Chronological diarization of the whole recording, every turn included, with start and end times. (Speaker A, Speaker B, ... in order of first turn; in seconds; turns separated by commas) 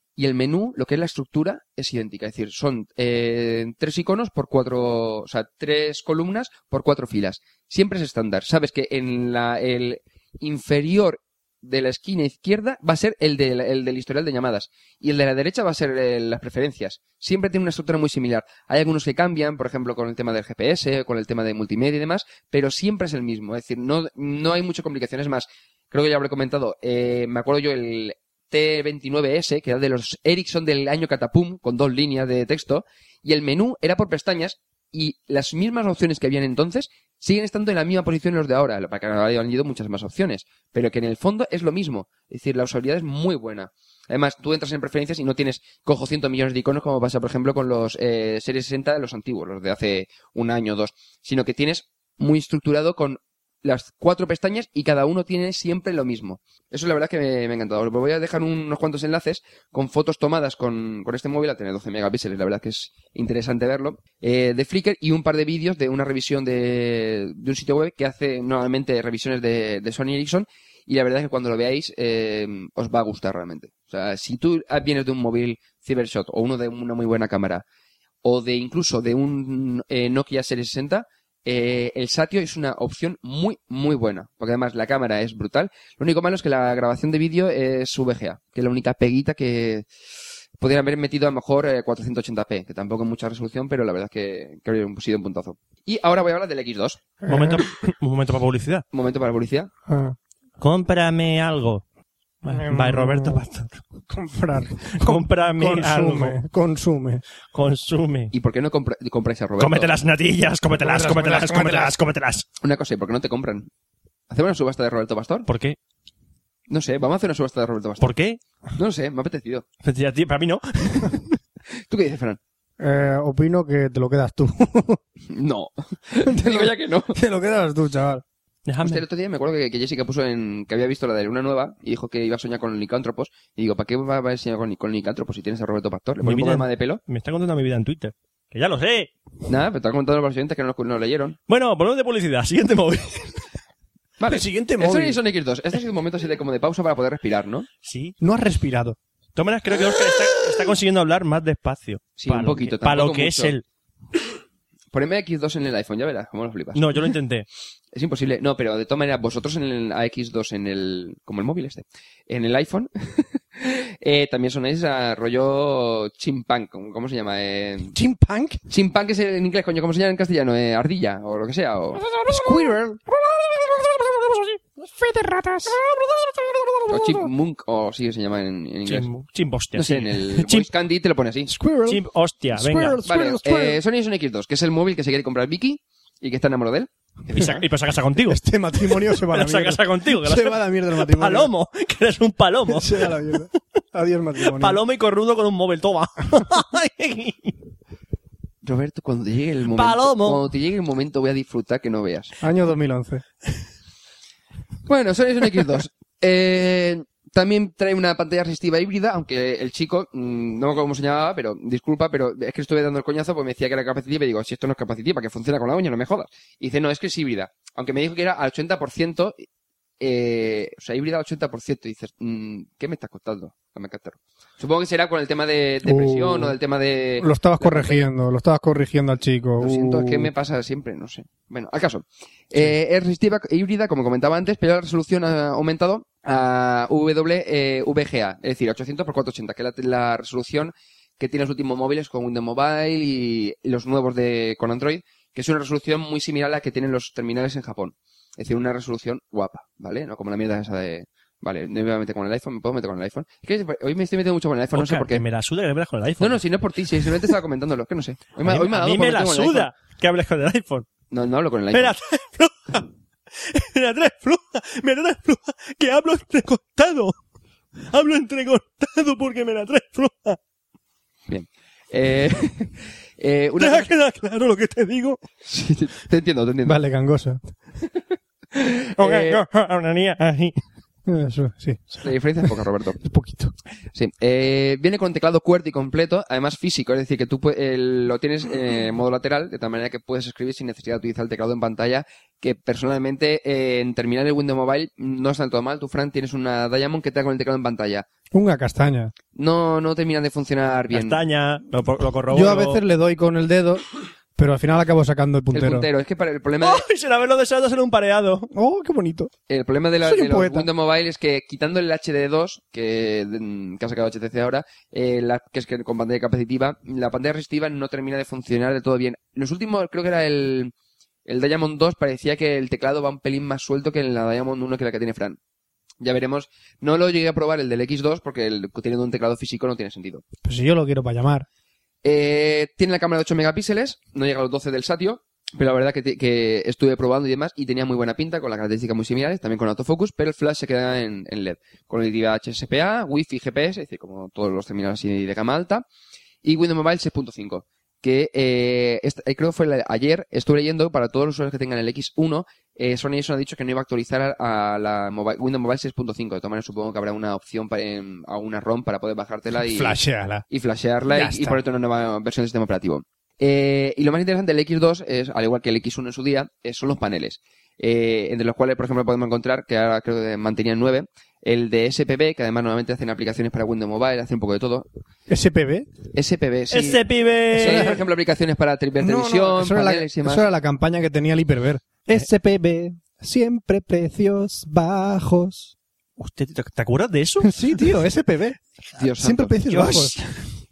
Speaker A: 0.1-77.6, Speaker A: 78.2-89.9, Speaker A: 90.6-97.0, Speaker B: 97.2-97.6, Speaker C: 97.3-98.8, Speaker A: 98.9-99.7, Speaker B: 99.9-100.2, Speaker C: 100.6-101.8, Speaker C: 102.4-103.8, Speaker B: 102.5-103.4, Speaker B: 104.1-107.2, Speaker C: 104.8-106.4, Speaker C: 107.5-108.3, Speaker A: 108.3-109.9, Speaker C: 109.6-112.5, Speaker B: 110.8-111.9, Speaker A: 112.6-113.7, Speaker A: 114.3-115.5, Speaker C: 115.5-115.8, Speaker A: 116.7-118.1, Speaker C: 118.0-118.4, Speaker A: 118.8-119.7, Speaker C: 119.8-121.4, Speaker A: 121.9-122.4, Speaker B: 122.8-125.0, Speaker A: 125.3-127.2, Speaker B: 126.2-128.2, Speaker C: 128.7-129.0, Speaker A: 128.8-137.0, Speaker C: 136.2-139.1, Speaker A: 139.5-141.4, Speaker C: 141.5-143.4, Speaker A: 144.2-147.7, Speaker B: 144.3-145.2, Speaker C: 147.8-148.2, Speaker B: 148.2-149.0, Speaker C: 149.3-153.6, Speaker A: 152.2-153.5, Speaker A: 154.9-156.9, Speaker C: 156.7-157.5, Speaker A: 157.9-167.9, Speaker B: 167.9-168.6, Speaker A: 168.7-172.7, Speaker B: 172.0-177.3, Speaker A: 176.9-179.1, Speaker C: 178.8-180.7, Speaker A: 179.7-181.5, Speaker B: 181.5-182.0, Speaker C: 181.9-183.0, Speaker B: 182.5-183.8, Speaker A: 183.0-187.6, Speaker C: 187.3-193.4, Speaker B: 188.3-191.5, Speaker B: 192.7-194.8, Speaker C: 194.4-197.6, Speaker A: 198.6-202.3, Speaker C: 199.7-200.4, Speaker B: 202.4-203.2, Speaker A: 204.8-219.4, Speaker A: 220.0-228.0, Speaker B: 225.8-226.5, Speaker B: 227.2-230.3, Speaker A: 229.6-255.2, Speaker C: 254.7-257.3, Speaker A: 256.2-259.7, Speaker C: 258.4-260.9, Speaker A: 261.1-261.9, Speaker C: 261.7-267.1, Speaker C: 267.9-270.4, Speaker A: 271.3-273.9, Speaker C: 273.6-275.2, Speaker A: 275.4-276.8, Speaker B: 276.6-277.4, Speaker A: 278.5-279.4, Speaker C: 279.0-280.6, Speaker B: 281.1-282.1, Speaker A: 282.0-283.0, Speaker B: 283.0-283.5, Speaker A: 283.9-298.1, Speaker B: 298.3-299.1, Speaker A: 299.3-301.2, Speaker C: 300.9-302.8, Speaker B: 302.3-303.8, Speaker B: 304.4-305.9, Speaker A: 305.5-306.8, Speaker C: 306.6-308.5, Speaker B: 308.5-309.3, Speaker A: 309.5-320.7, Speaker B: 310.0-310.7, Speaker A: 321.2-325.4, Speaker A: 326.0-330.2, Speaker B: 330.4-331.4, Speaker A: 332.0-345.8, Speaker A: 346.4-374.9, Speaker B: 359.6-360.4, Speaker B: 361.1-361.6, Speaker B: 375.3-375.9, Speaker A: 376.1-380.5, Speaker C: 376.7-378.0, Speaker B: 377.6-377.9, Speaker B: 379.0-385.7, Speaker C: 386.2-387.9, Speaker B: 387.4-388.6, Speaker A: 388.9-390.2, Speaker B: 389.2-390.1